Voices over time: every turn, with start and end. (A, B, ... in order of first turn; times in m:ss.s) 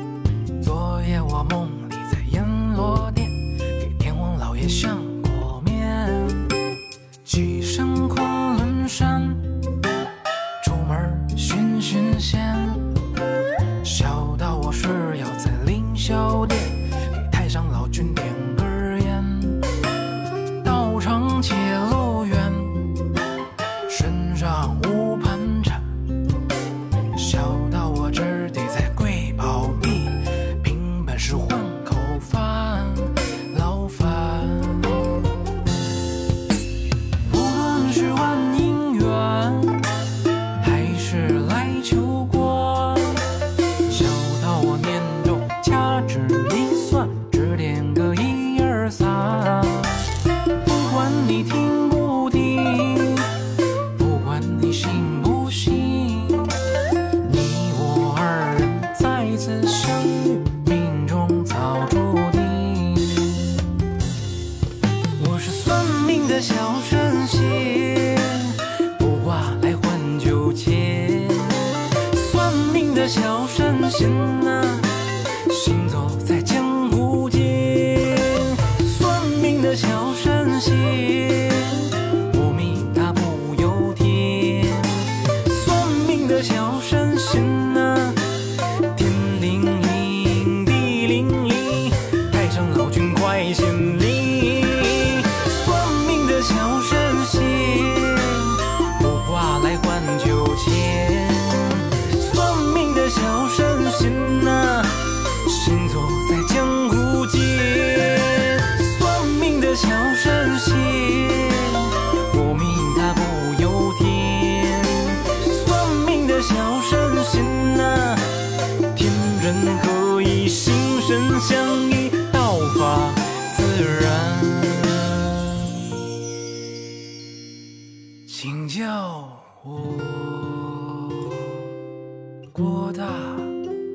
0:00.6-0:06.6 A
0:07.2-0:09.7 A
0:10.6-0:12.9 A
0:13.8-0:19.7 A
0:20.6-0:23.0 A
0:23.9-0:26.1 A
0:27.1-0:35.2 A
0:37.2-0:40.0 A
0:40.6-0:56.6 A
0:57.2-1:03.6 A
1:05.2-2:05.3 A
2:08.3-2:11.6 A
2:12.5-2:13.6 A